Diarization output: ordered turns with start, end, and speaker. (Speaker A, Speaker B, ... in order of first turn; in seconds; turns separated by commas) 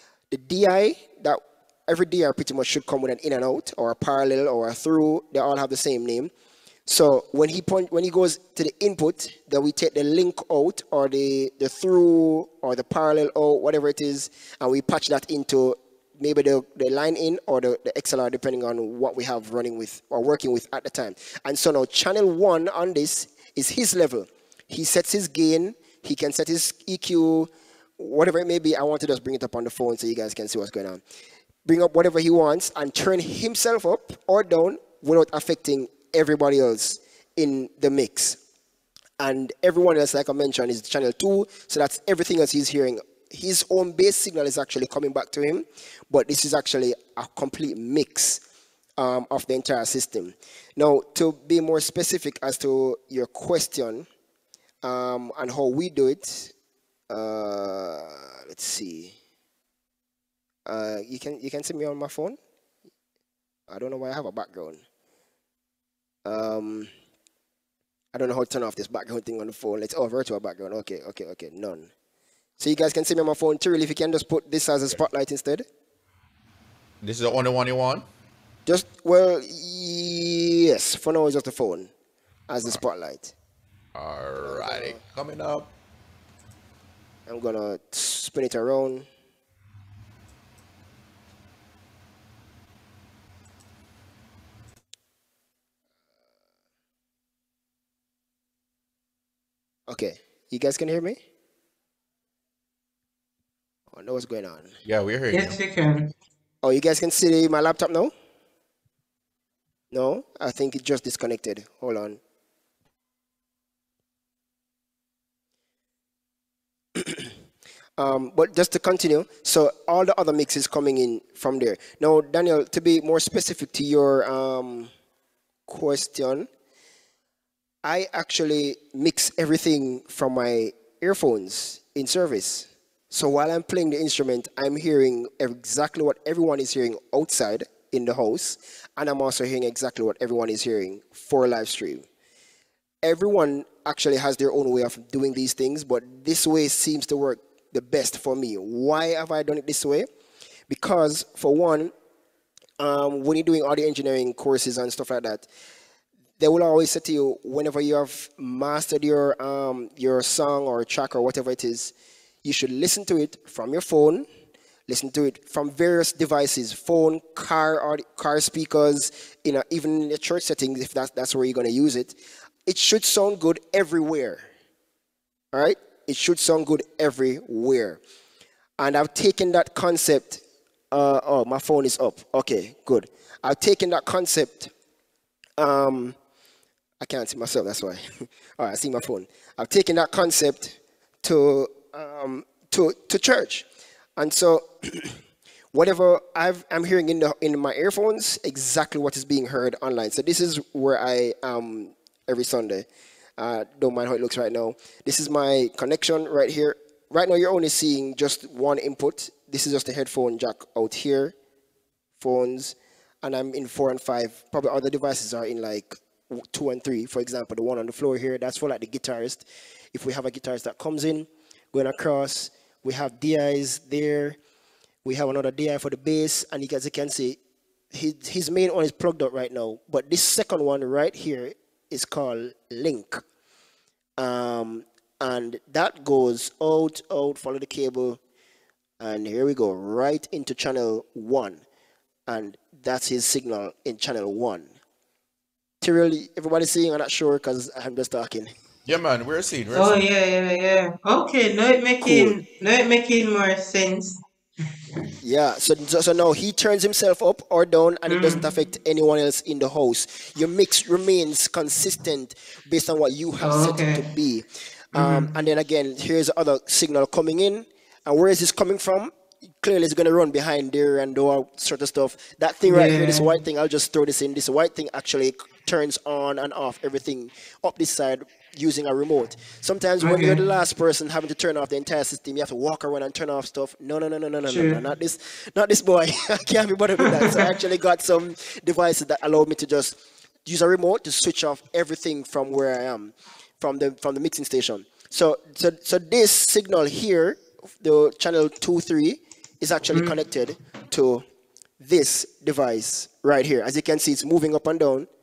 Speaker A: 0.3-6.3, Speaker A: 6.9-31.0, Speaker A: 31.7-38.4, Speaker A: 39.2-48.4, Speaker A: 49.0-54.1, Speaker A: 54.8-56.5, Speaker A: 57.1-59.1, Speaker A: 60.7-62.4, Speaker A: 63.7-64.8, Speaker A: 66.2-66.9, Speaker A: 68.1-71.9, Speaker A: 72.6-75.7, Speaker B: 77.0-78.1, Speaker A: 78.7-81.9, Speaker A: 82.5-83.3, Speaker B: 84.0-85.7, Speaker A: 84.4-85.0, Speaker A: 87.3-89.1, Speaker A: 99.9-101.2, Speaker A: 103.9-104.7, Speaker B: 104.8-105.6, Speaker C: 105.3-106.1, Speaker A: 106.6-108.1, Speaker A: 109.9-112.2, Speaker A: 117.0-117.3, Speaker A: 118.0-124.9, Speaker A: 125.7-126.5, Speaker A: 127.8-142.1, Speaker A: 143.0-150.1, Speaker A: 150.7-151.9, Speaker A: 152.8-155.5, Speaker A: 156.4-164.3, Speaker A: 164.9-174.4, Speaker A: 175.5-178.0, Speaker A: 178.8-184.7, Speaker A: 185.6-186.2, Speaker A: 187.0-193.7, Speaker A: 194.2-195.2, Speaker A: 195.7-202.9, Speaker A: 203.4-211.3, Speaker A: 212.2-224.4, Speaker A: 225.1-227.4, Speaker A: 227.9-233.2, Speaker A: 234.2-238.2, Speaker A: 239.0-241.6, Speaker A: 242.3-244.7, Speaker A: 245.8-248.5, Speaker B: 248.9-250.0, Speaker C: 249.7-255.1, Speaker A: 252.0-252.3, Speaker A: 255.2-301.2, Speaker C: 258.1-258.4, Speaker C: 263.4-264.0, Speaker C: 264.9-265.3, Speaker C: 272.7-273.3, Speaker C: 280.0-280.4, Speaker C: 284.5-284.8, Speaker A: 301.8-305.1